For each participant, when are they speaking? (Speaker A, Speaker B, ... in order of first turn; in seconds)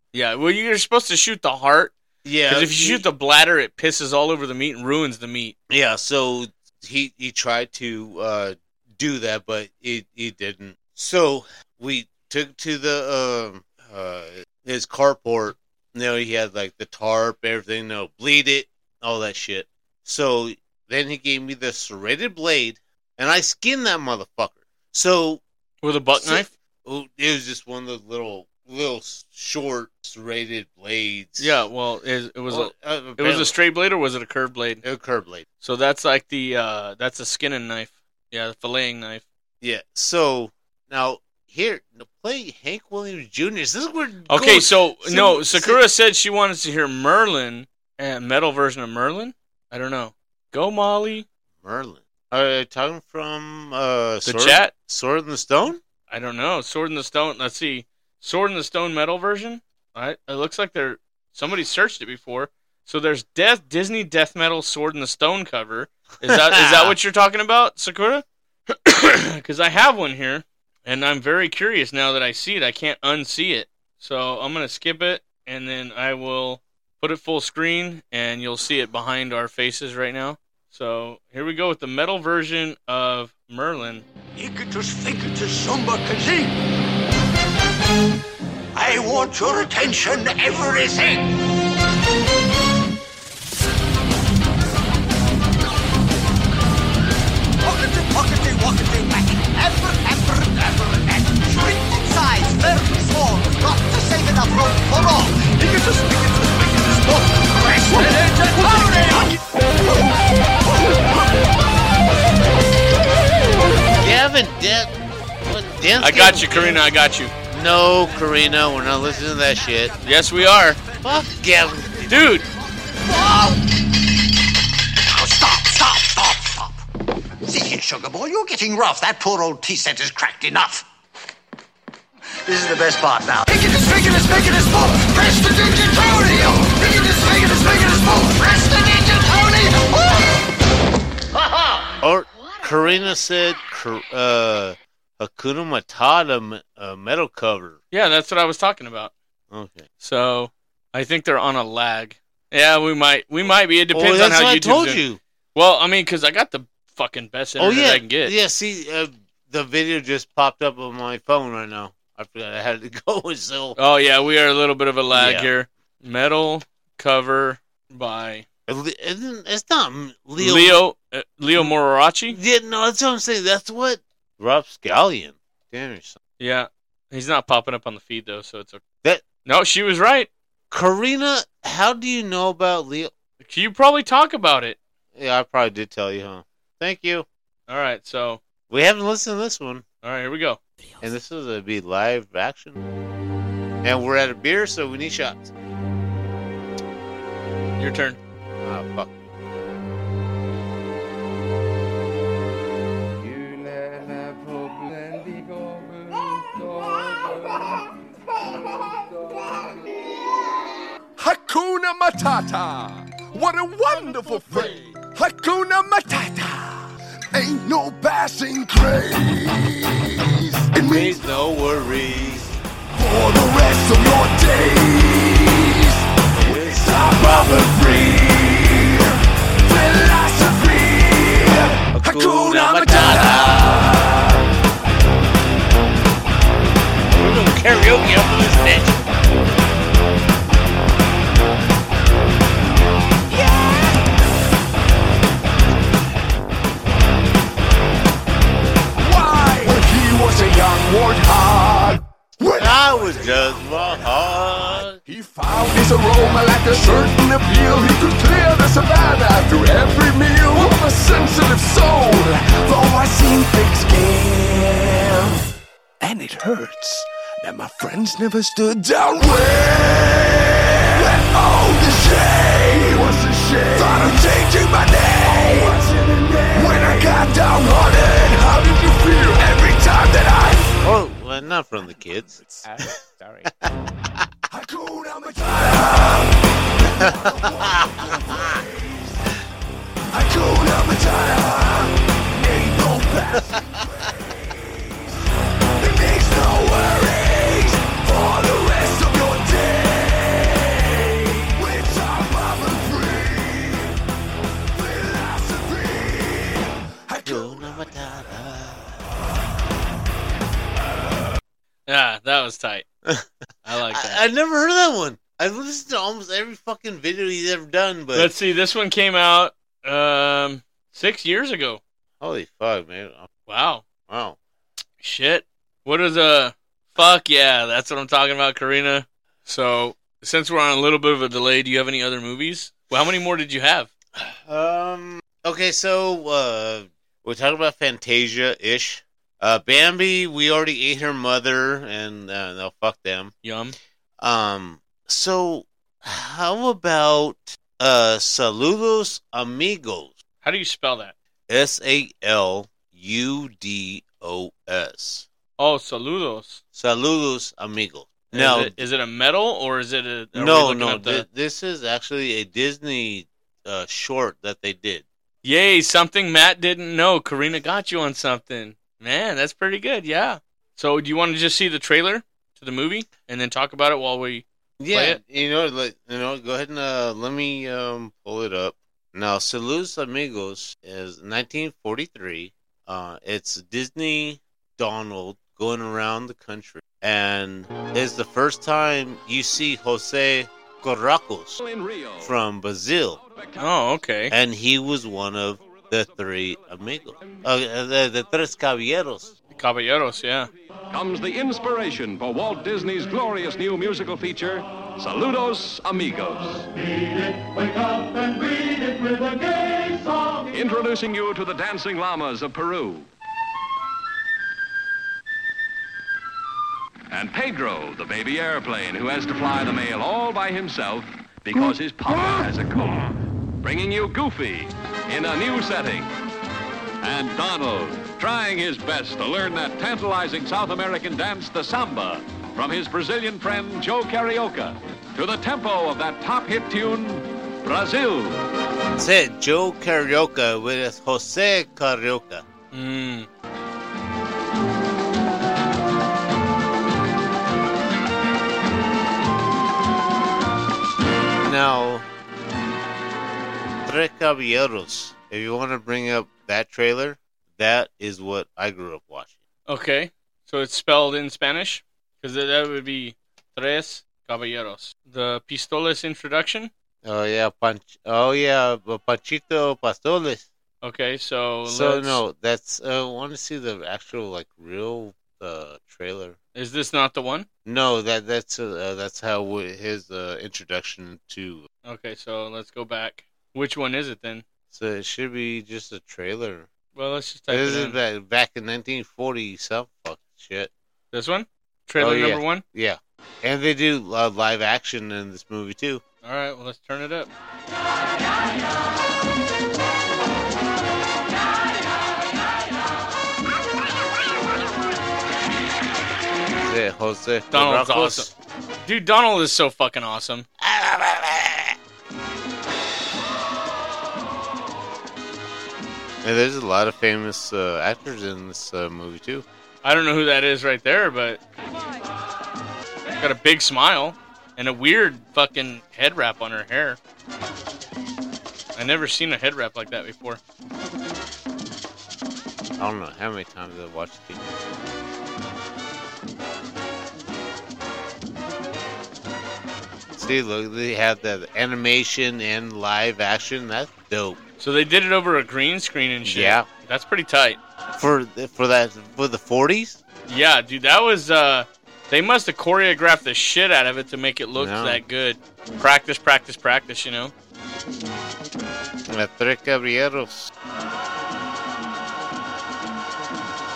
Speaker A: 0.1-1.9, 2.5-5.5, 25.8-26.5, 31.4-34.8, 35.6-39.2, 44.3-51.3, 54.2-54.7, 56.1-84.0, 116.0-117.3, 120.0-120.8, 122.1-122.5, 147.9-149.1, 150.0-155.0, 155.6-158.3, 163.8-168.4, 170.4-172.4, 176.4-178.8, 179.4-180.3, 183.4-184.8, 187.7-188.4, 190.0-190.6, 197.8-198.2, 311.9-312.9, 313.7-314.2, 318.1-321.8, 323.5-323.8, 325.0-333.9, 343.4-343.8, 350.4-351.1, 355.6-356.6, 358.3-361.2, 365.4-375.2, 393.6-394.3, 399.6-400.5, 442.7-443.3, 459.7-466.7, 470.8-472.2, 476.6-477.5, 481.9-484.4, 486.9-488.0, 491.1-492.6, 496.2-497.3, 507.5-508.3, 508.9-510.4, 519.8-521.4, 523.2-527.0, 528.8-530.4, 544.6-547.6, 550.3-557.3
Speaker B: 2.2-3.1, 5.7-25.4, 26.2-31.6, 32.5-33.5, 34.8-35.5, 39.6-45.8, 51.6-55.8, 66.2-67.0, 114.0-116.8, 117.5-120.0, 121.0-122.1, 142.0-147.8, 149.5-149.9, 153.9-155.2, 157.6-163.8, 165.1-165.5, 168.7-170.8, 172.3-176.2, 180.7-183.1, 185.2-187.3, 188.7-189.8, 191.0-192.8, 193.8-195.5, 198.6-199.2, 220.8-222.6, 226.4-227.4, 231.9-233.9, 237.1-239.0, 252.6-255.0, 280.8-282.4, 287.0-288.6, 307.2-309.0, 313.1-318.3, 322.2-323.3, 324.1-324.4, 334.2-343.3, 344.2-350.2, 351.5-355.3, 356.7-358.8, 360.4-365.1, 374.8-391.6, 392.2-393.2, 394.3-399.3, 438.9-442.4, 451.4-452.1, 453.9-459.4, 467.0-470.4, 471.7-476.4, 477.7-481.7, 484.7-486.7, 487.5-490.7, 492.0-496.0, 506.6-508.3, 510.6-511.8, 516.2-519.5, 532.8-534.5, 540.1-544.4, 546.2-546.7, 548.0-550.0, 554.5-555.0, 559.1-560.5
Speaker C: 84.4-86.5, 88.8-91.2, 97.6-109.3, 123.1-123.6, 125.1-126.8, 127.5-130.8, 132.4-140.2, 141.5-141.9
Speaker D: 211.2-221.3, 222.9-234.3, 249.0-253.6, 255.1-265.4, 266.0-280.8, 284.5-289.1, 290.1-295.2, 295.8-303.9, 304.7-307.7
Speaker E: 391.6-392.3, 393.2-393.6, 400.9-406.7, 410.4-413.1, 417.1-426.1, 427.0-438.4